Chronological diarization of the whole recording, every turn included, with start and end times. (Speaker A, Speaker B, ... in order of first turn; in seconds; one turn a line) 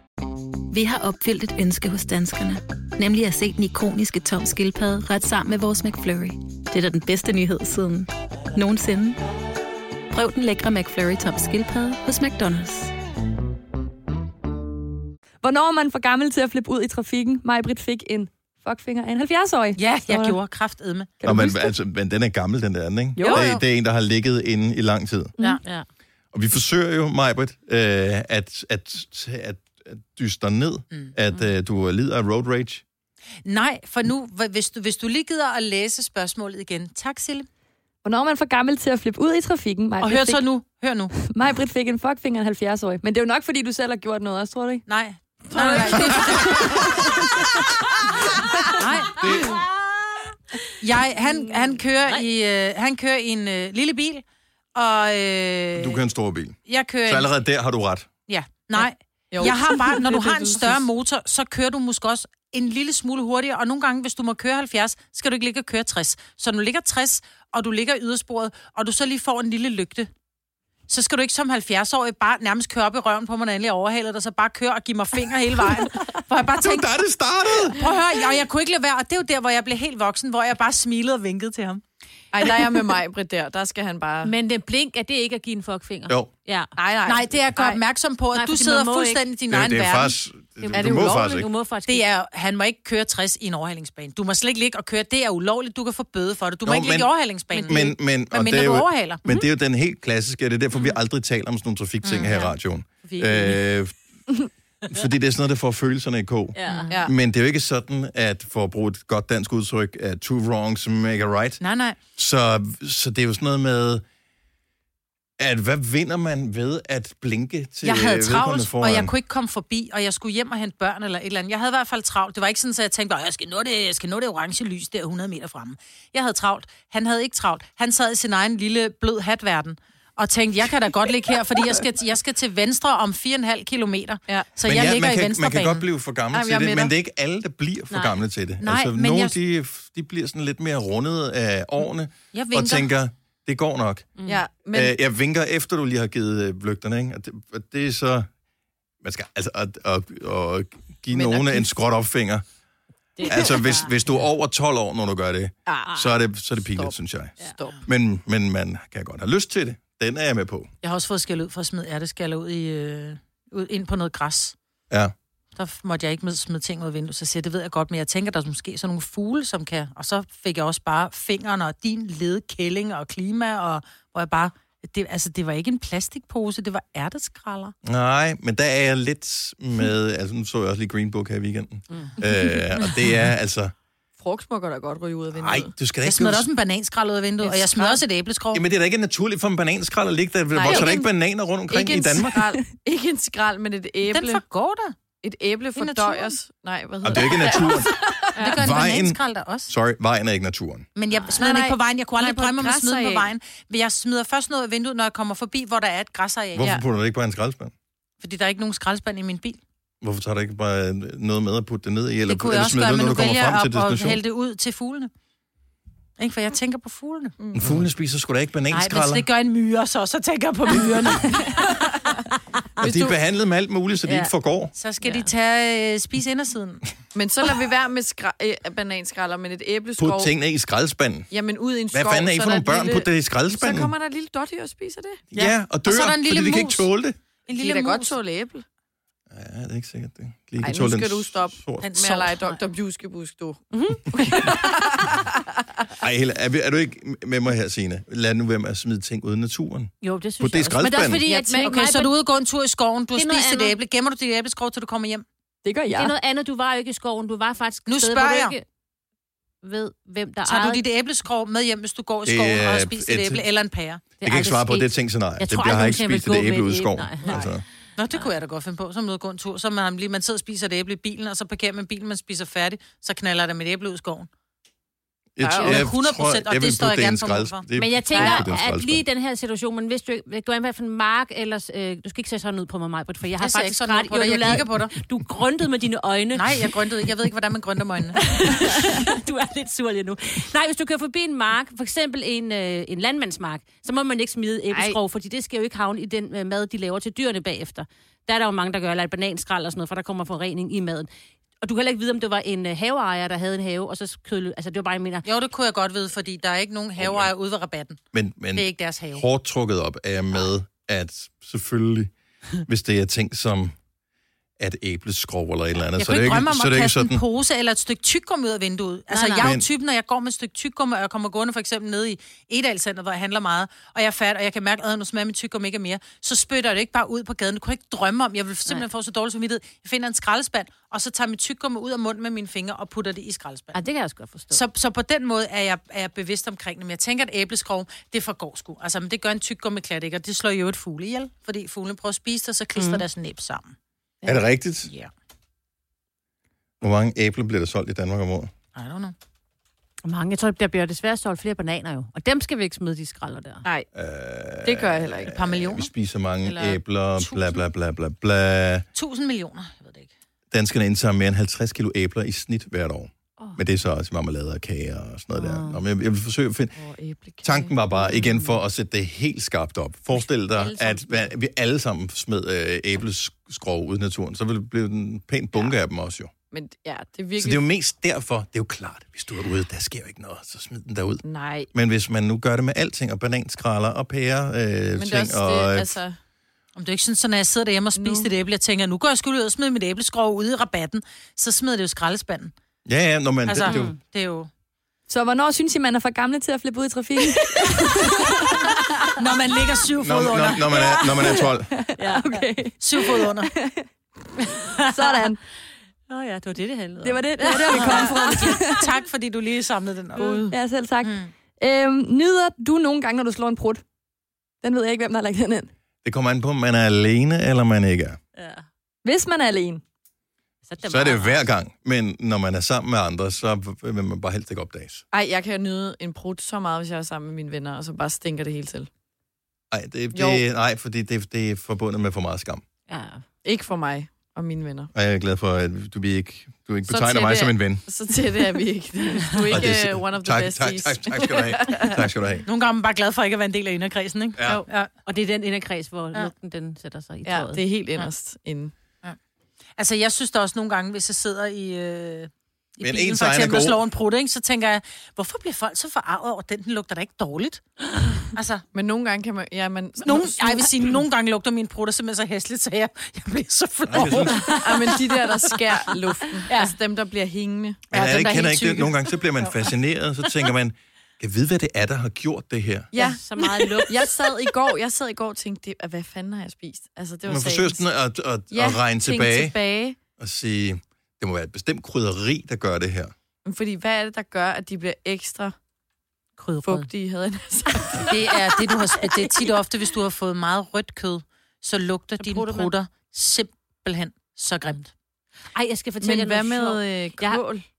Speaker A: 0.7-9.2
Speaker A: 10.1-12.9
Speaker B: 15.4-20.4
Speaker C: 19.8-21.1
Speaker B: 21.2-21.7
Speaker D: 21.2-25.3
Speaker B: 23.2-23.5
Speaker C: 23.2-23.6
Speaker D: 26.3-32.8
Speaker C: 33.5-37.5
Speaker B: 38.0-40.4
Speaker C: 40.0-41.1
Speaker B: 41.1-44.8
Speaker C: 44.9-46.9
Speaker E: 45.6-46.0
Speaker B: 45.6-47.5
Speaker C: 48.8-49.5
Speaker D: 49.2-49.5
Speaker E: 49.2-49.5
Speaker C: 50.8-54.2
Speaker C: 54.8-56.0
Speaker D: 55.8-58.1
Speaker C: 56.7-57.3
Speaker C: 58.3-70.1
Speaker F: 59.3-60.8
Speaker C: 70.9-77.0
Speaker D: 76.5-78.0
Speaker C: 77.6-81.8
Speaker F: 82.3-84.3
Speaker E: 84.2-86.7
Speaker F: 86.8-87.8
Speaker C: 87.1-90.2
Speaker E: 88.3-89.2
Speaker D: 89.5-91.5
Speaker E: 90.6-92.1
Speaker F: 90.7-91.4
Speaker C: 91.9-99.2
Speaker D: 96.7-104.0
Speaker C: 102.0-102.5
Speaker E: 103.0-103.6
Speaker D: 104.9-111.6
Speaker E: 106.5-107.0
Speaker C: 111.6-112.0
Speaker D: 112.2-114.0
Speaker D: 115.4-119.1
Speaker C: 117.8-135.8
Speaker D: 134.6-144.1
Speaker F: 136.3-136.9
Speaker E: 137.9-138.2
Speaker C: 138.6-139.4
Speaker C: 142.3-142.9
Speaker F: 144.3-145.0
Speaker D: 144.7-148.3
Speaker D: 149.0-152.4
Speaker F: 151.1-151.7
Speaker E: 153.2-153.9
Speaker D: 153.2-160.7
Speaker F: 155.7-156.0
Speaker F: 156.7-157.8
Speaker C: 160.8-164.6
Speaker C: 165.6-177.8
Speaker D: 177.8-183.7
Speaker F: 184.2-185.7
Speaker D: 185.3-186.5
Speaker C: 186.0-188.6
Speaker F: 187.5-188.0
Speaker D: 188.5-192.4
Speaker F: 190.6-191.1
Speaker F: 191.7-194.4
Speaker C: 194.1-194.9
Speaker F: 195.2-198.6
Speaker C: 195.8-196.4
Speaker D: 197.0-200.9
Speaker C: 198.4-199.7
Speaker C: 201.0-206.8
Speaker F: 201.3-203.3
Speaker D: 206.6-207.7
Speaker C: 208.2-209.6
Speaker D: 210.0-214.2
Speaker C: 212.3-215.1
Speaker C: 216.2-217.4
Speaker F: 217.4-217.8
Speaker D: 217.6-219.3
Speaker C: 218.7-221.7
Speaker D: 222.8-224.7
Speaker F: 222.8-223.1
Speaker C: 224.8-226.8
Speaker E: 225.0-225.3
Speaker F: 227.1-230.3
Speaker D: 230.0-231.3
Speaker F: 231.3-235.2
Speaker D: 231.9-233.9
Speaker D: 235.3-237.2
Speaker C: 235.3-236.9
Speaker C: 237.5-238.2
Speaker F: 237.5-238.7
Speaker D: 239.3-241.9
Speaker F: 240.6-245.4
Speaker C: 241.8-242.6
Speaker E: 243.7-244.6
Speaker D: 246.0-251.2
Speaker E: 250.0-252.2
Speaker F: 251.2-251.8
Speaker C: 251.6-255.2
Speaker E: 253.2-253.8
Speaker B: 255.6-256.1
Speaker E: 255.9-258.6
Speaker C: 257.9-258.6
Speaker E: 259.6-260.8
Speaker C: 260.5-264.0
Speaker D: 262.2-263.4
Speaker E: 264.2-267.5
Speaker D: 264.2-267.6
Speaker C: 268.0-274.3
Speaker D: 275.4-279.0
Speaker F: 275.4-275.9
Speaker C: 275.6-277.6
Speaker E: 277.7-287.1
Speaker F: 278.1-278.4
Speaker C: 283.4-284.9
Speaker C: 286.3-288.3
Speaker E: 288.1-301.1
Speaker E: 301.6-305.3
Speaker C: 305.2-308.0
Speaker D: 307.0-307.3
Speaker D: 308.1-312.1
Speaker C: 308.5-309.2
Speaker D: 312.6-313.8
Speaker D: 314.6-317.2
Speaker C: 316.0-333.8
Speaker E: 319.1-319.5
Speaker D: 319.4-319.7
Speaker E: 333.7-334.6
Speaker C: 334.5-343.8
Speaker E: 342.8-343.0
Speaker D: 344.2-344.9
Speaker C: 344.9-345.1
Speaker D: 346.8-348.5
Speaker C: 348.8-349.1
Speaker E: 350.1-353.6
Speaker D: 353.9-358.9
Speaker F: 354.6-355.4
Speaker C: 355.3-355.9
Speaker C: 356.4-357.6
Speaker C: 358.9-360.1
Speaker D: 360.5-366.7
Speaker E: 365.4-365.8
Speaker F: 366.8-367.8
Speaker D: 367.4-376.3
Speaker E: 368.1-368.6
Speaker E: 370.2-371.3
Speaker F: 376.5-377.6
Speaker D: 377.4-386.0
Speaker F: 381.2-381.7
Speaker F: 385.0-386.2
Speaker C: 386.8-392.5
Speaker F: 388.0-388.3
Speaker D: 392.9-393.9
Speaker C: 393.5-394.5
Speaker E: 393.6-394.0
Speaker B: 395.1-398.8
Speaker C: 399.2-401.0
Speaker D: 400.0-401.8
Speaker B: 401.2-403.9
Speaker E: 402.0-402.5
Speaker C: 402.8-403.5
Speaker B: 404.9-405.4
Speaker E: 404.9-405.2
Speaker E: 406.1-408.6
Speaker B: 407.0-408.9
Speaker C: 407.6-410.5
Speaker F: 410.2-410.4
Speaker B: 410.5-413.8
Speaker C: 411.0-411.3
Speaker B: 414.6-415.7
Speaker D: 416.0-418.2
Speaker E: 418.4-418.6
Speaker B: 419.1-419.8
Speaker E: 420.7-421.4
Speaker D: 420.8-425.0
Speaker F: 425.1-428.9
Speaker D: 429.7-432.6
Speaker F: 430.1-430.4
Speaker E: 432.9-433.2
Speaker F: 433.4-434.9
Speaker D: 434.9-437.8
Speaker F: 436.9-442.0
Speaker D: 439.5-442.4
Speaker C: 442.5-444.9
Speaker D: 444.4-444.6
Speaker E: 445.1-447.6
Speaker F: 447.2-448.7
Speaker C: 449.8-457.6
Speaker D: 452.8-453.8
Speaker C: 458.3-458.6
Speaker F: 458.7-460.7
Speaker C: 460.0-465.1
Speaker D: 463.9-464.6
Speaker E: 464.0-464.9
Speaker F: 464.6-467.8
Speaker E: 466.5-466.7
Speaker C: 467.9-469.7
Speaker D: 467.9-472.9
Speaker F: 472.9-473.2
Speaker E: 472.9-474.2
Speaker F: 473.8-477.8
Speaker D: 477.3-479.6
Speaker F: 478.5-480.0
Speaker D: 480.2-483.1
Speaker F: 483.4-485.6
Speaker E: 486.4-486.9
Speaker F: 486.6-488.1
Speaker C: 488.1-494.9
Speaker E: 489.2-489.6
Speaker E: 492.2-492.7
Speaker E: 495.6-497.4
Speaker F: 496.0-497.6